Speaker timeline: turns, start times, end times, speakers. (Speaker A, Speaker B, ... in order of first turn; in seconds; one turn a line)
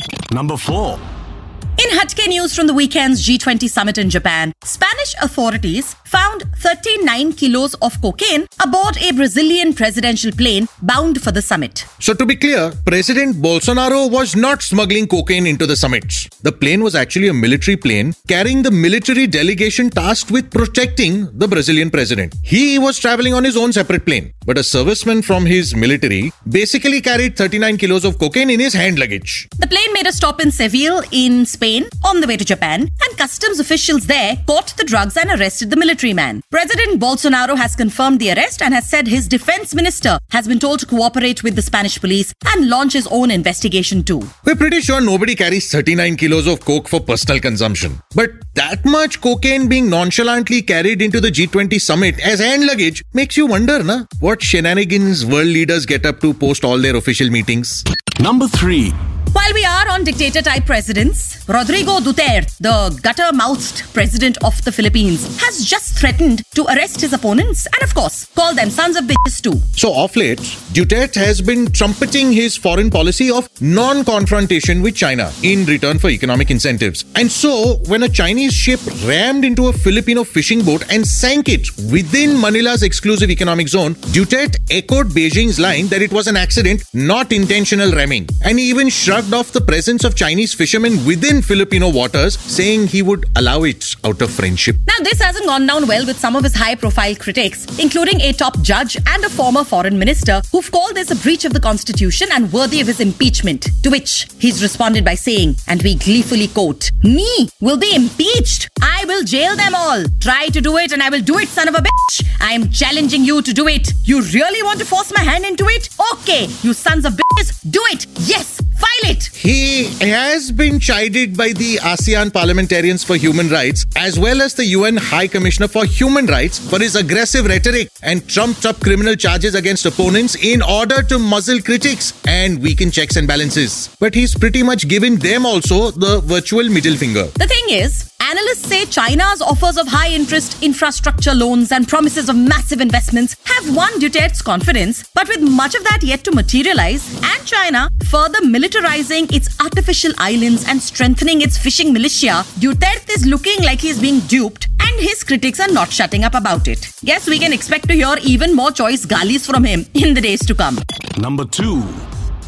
Speaker A: 0.3-1.0
Speaker B: 1.8-11.9
Speaker C: 12.0-29.5
Speaker B: 29.6-44.3
Speaker C: 44.4-57.9
Speaker A: 58.2-59.0
Speaker B: 59.3-69.7
Speaker C: 69.8-94.8
Speaker B: 94.9-119.3
Speaker C: 119.4-137.3
Speaker B: 137.4-160.8
Speaker A: 161.2-162.1